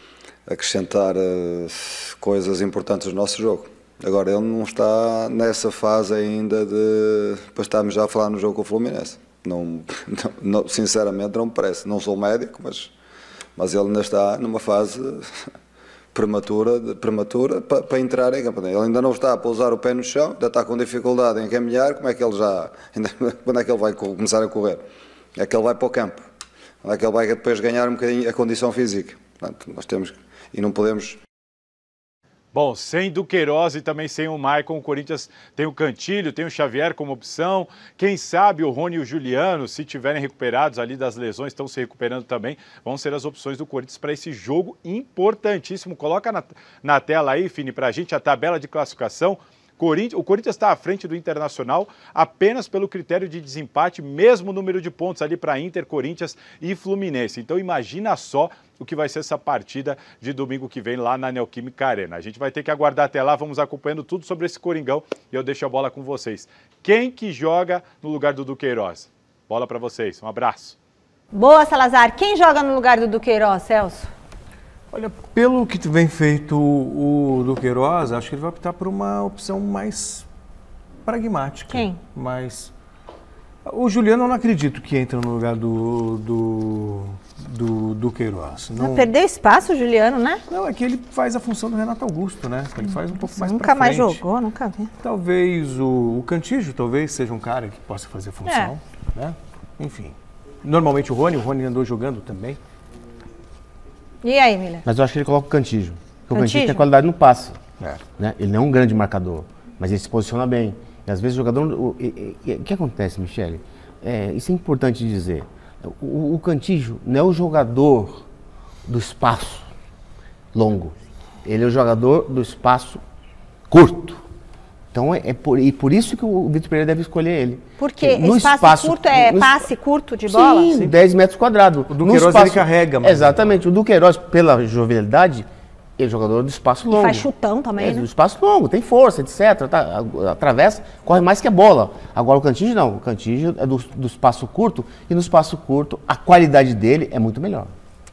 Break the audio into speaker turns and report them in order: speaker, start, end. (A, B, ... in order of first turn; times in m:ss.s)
0:00.5-0:12.9 A
0:13.6-0:15.2 A
0:16.1-0:24.8 A
0:25.4-0:26.2 A
0:26.8-0:31.2 A
0:32.5-1:10.8 B
1:11.3-1:14.1 C
1:14.9-1:20.3 D
1:21.0-1:22.7 D
1:21.7-1:22.0 C
1:23.6-1:29.1 D
1:28.8-1:30.4 C
1:30.5-1:34.2 D
1:33.2-1:34.9 C
1:35.0-1:42.6 D
1:38.5-1:38.7 C
1:44.2-1:44.8 C
1:44.8-1:47.6 E
1:46.3-1:46.9 C
1:48.2-1:58.3 E
1:58.9-1:59.7 E
2:00.5-2:03.0 E
2:03.7-2:04.2 E
2:04.9-2:09.7 E
2:07.8-2:10.8 C
2:10.3-2:15.5 E
2:11.9-2:13.6 D
2:16.0-2:27.7 E
2:16.9-2:18.1 C